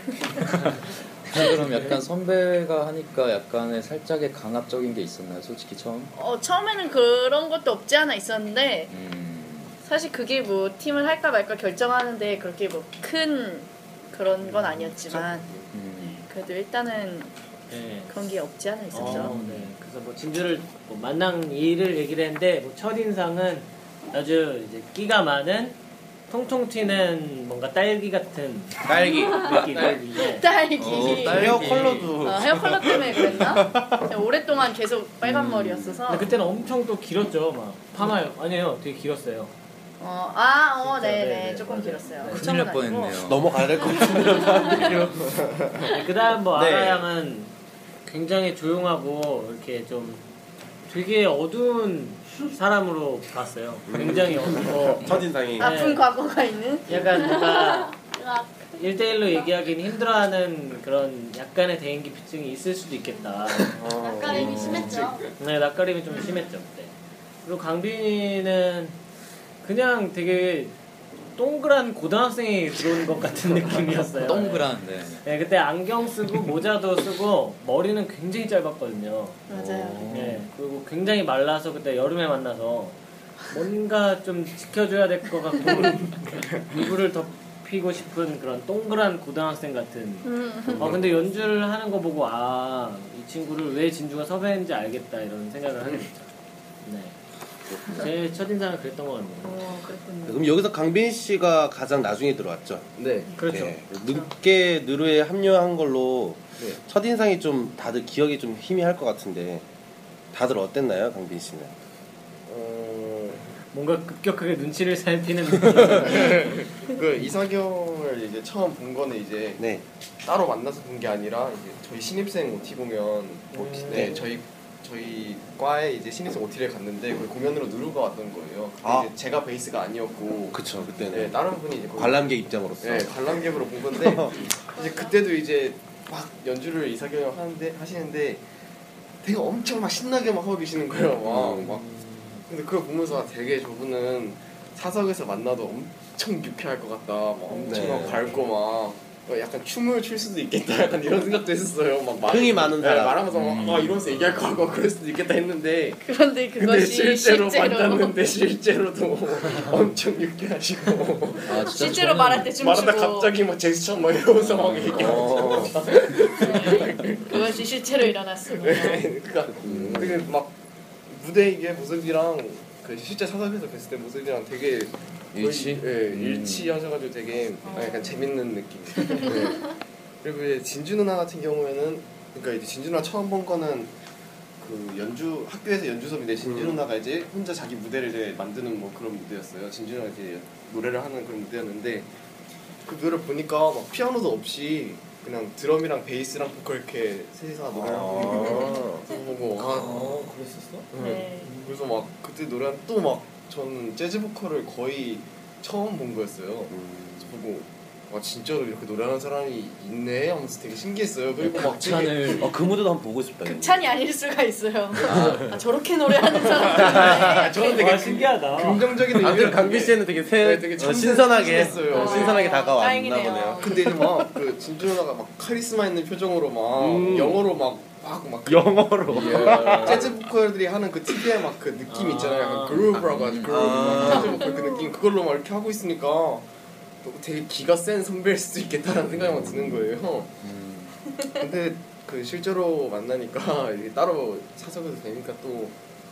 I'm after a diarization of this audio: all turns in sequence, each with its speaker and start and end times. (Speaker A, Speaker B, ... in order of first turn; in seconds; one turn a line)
Speaker A: 1.3-6.1
Speaker B: 6.1-8.9
Speaker A: 8.9-9.8
Speaker B: 9.8-15.5
Speaker C: 15.1-15.3
Speaker A: 15.7-16.2
Speaker B: 16.0-17.3
Speaker D: 17.7-18.1
Speaker B: 18.1-19.3
Speaker D: 18.9-25.8
Speaker A: 19.0-19.7
Speaker D: 26.3-30.4
Speaker E: 28.8-30.0
Speaker B: 30.3-36.3
Speaker A: 30.8-32.2
Speaker E: 30.8-34.1
Speaker E: 35.2-36.0
Speaker D: 36.1-39.5
Speaker B: 40.0-43.2
Speaker D: 40.8-42.5
Speaker A: 42.3-43.7
Speaker E: 43.2-45.3
Speaker C: 45.2-45.7
Speaker D: 45.9-47.5
Speaker E: 46.5-47.0
Speaker D: 48.0-50.2
Speaker D: 50.9-56.1
Speaker E: 53.9-55.9
Speaker B: 55.6-57.8
Speaker D: 56.9-57.9
Speaker F: 57.4-58.7
Speaker D: 58.8-63.8
Speaker C: 63.8-65.2
Speaker F: 63.9-65.2
Speaker A: 64.3-65.0
Speaker D: 65.3-66.9
Speaker B: 66.1-66.4
Speaker D: 67.4-68.9
Speaker D: 69.6-70.7
Speaker D: 71.3-74.7
Speaker A: 74.2-75.2
Speaker D: 75.2-79.5
Speaker B: 79.5-80.1
Speaker A: 79.5-80.5
Speaker D: 80.1-83.0
Speaker D: 83.5-96.3
Speaker B: 90.2-90.9
Speaker D: 96.8-97.2
Speaker D: 97.9-99.7
Speaker B: 99.4-100.4
Speaker E: 100.2-102.9
Speaker C: 103.0-103.3
Speaker D: 103.3-103.9
Speaker E: 103.5-109.6
Speaker E: 110.3-111.7
Speaker C: 112.5-113.4
Speaker D: 113.7-116.5
Speaker C: 115.8-119.6
Speaker E: 119.6-119.8
Speaker C: 120.2-138.4
Speaker D: 123.5-124.2
Speaker E: 123.5-124.2
Speaker E: 128.8-129.1
Speaker E: 130.5-131.3
Speaker E: 131.9-133.2
Speaker E: 134.0-134.4
Speaker F: 134.8-135.2
Speaker C: 139.2-141.9
Speaker E: 141.2-141.7
Speaker D: 141.6-142.4
Speaker C: 142.5-156.0
Speaker B: 147.5-147.8
Speaker E: 147.6-148.3
Speaker E: 152.3-153.2
Speaker A: 153.3-154.4
Speaker B: 156.0-158.2
Speaker C: 156.6-161.7
Speaker A: 161.4-162.6
Speaker B: 161.7-163.4
Speaker C: 162.6-167.5
Speaker A: 164.3-165.8
Speaker E: 165.2-165.7
Speaker B: 166.3-169.1
Speaker C: 168.6-170.5
Speaker E: 169.6-170.2
Speaker A: 169.6-170.2
Speaker C: 171.1-179.7
Speaker A: 175.3-176.8
Speaker B: 177.6-178.2
Speaker C: 180.2-183.9
Speaker C: 184.6-192.1
Speaker E: 186.4-186.8
Speaker C: 192.8-200.0
Speaker E: 197.7-199.0
Speaker D: 199.6-200.9
Speaker C: 200.9-212.4
Speaker B: 201.0-201.5
Speaker E: 206.7-207.3
Speaker A: 211.4-212.5
Speaker E: 212.3-213.8
Speaker B: 213.4-217.8
Speaker A: 215.1-215.5
Speaker E: 215.1-215.5
Speaker C: 216.6-222.5
Speaker E: 216.7-217.4
Speaker D: 217.7-219.0
Speaker E: 219.1-223.7
Speaker B: 221.4-224.0
Speaker C: 223.6-236.5
Speaker E: 226.8-227.4
Speaker E: 228.5-230.2
Speaker A: 229.1-230.1
Speaker D: 231.9-232.9
Speaker A: 232.9-234.2
Speaker E: 233.4-234.5
Speaker B: 234.1-234.9
Speaker C: 237.0-240.3
Speaker A: 239.2-239.8
Speaker A: 240.4-240.9
Speaker C: 241.4-245.8